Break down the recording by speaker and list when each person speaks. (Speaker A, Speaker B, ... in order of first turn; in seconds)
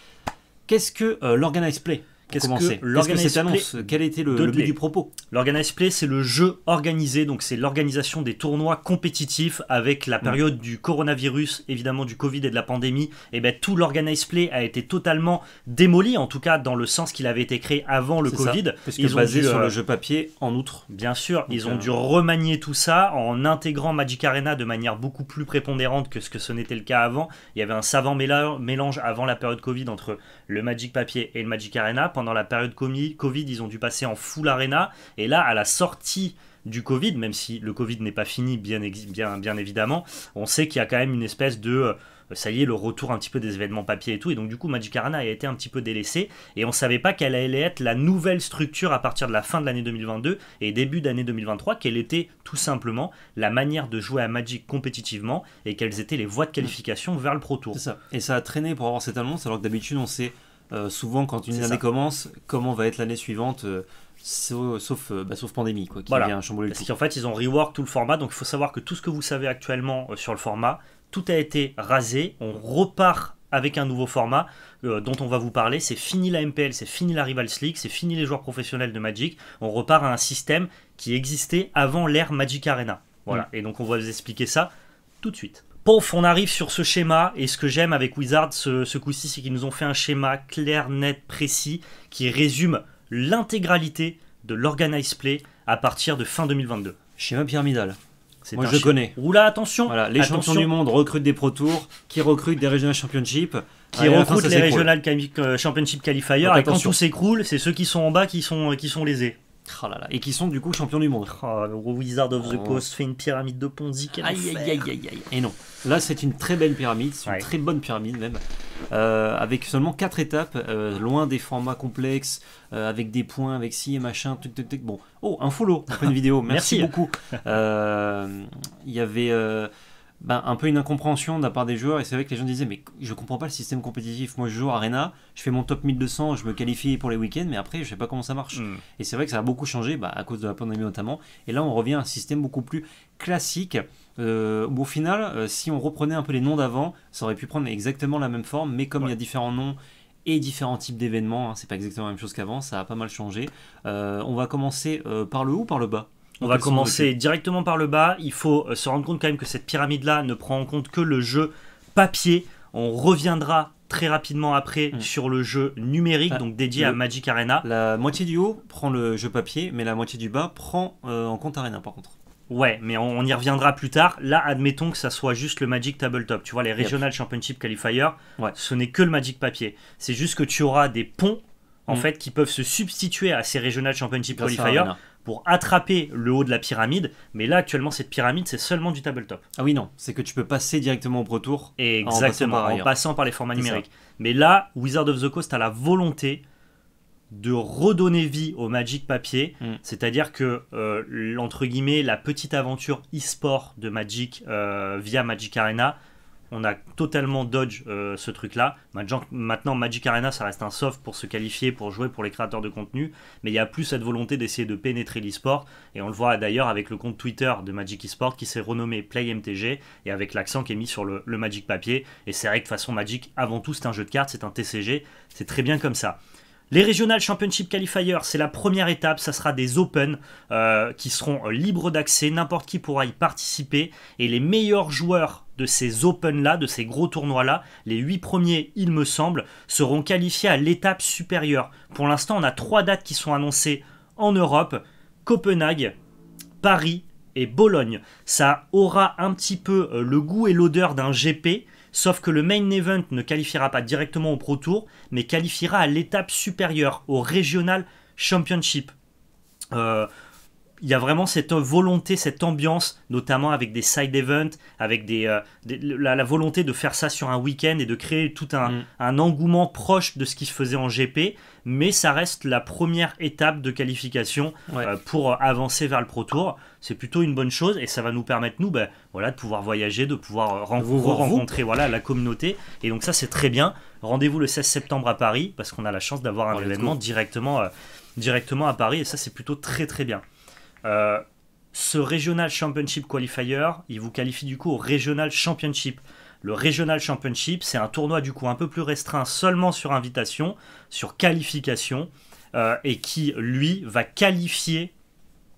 Speaker A: 0.7-5.1, 18.3-20.9, 21.5-21.9, 57.7-66.9, 97.2-98.0, 98.5-99.2, 99.9-104.9, 106.4-107.0, 109.6-111.4, 112.4-112.8, 114.1-129.7, 130.2-157.1, 166.3-167.0, 167.6-172.1, 184.4-185.0, 189.6-192.9, 193.6-193.8, 280.8-281.5, 286.5-287.0
Speaker B: 2.3-4.8, 5.3-19.7, 20.9-57.8, 61.5-61.8, 66.1-84.7, 85.2-97.0, 98.5-100.7, 104.0-109.4, 111.3-114.9, 126.5-126.9, 138.5-138.8, 156.4-167.6, 172.5-189.4, 191.8-196.4, 197.3-205.9, 206.5-226.2, 226.7-245.9, 246.6-258.9, 259.7-260.1, 260.8-290.2, 290.8-304.9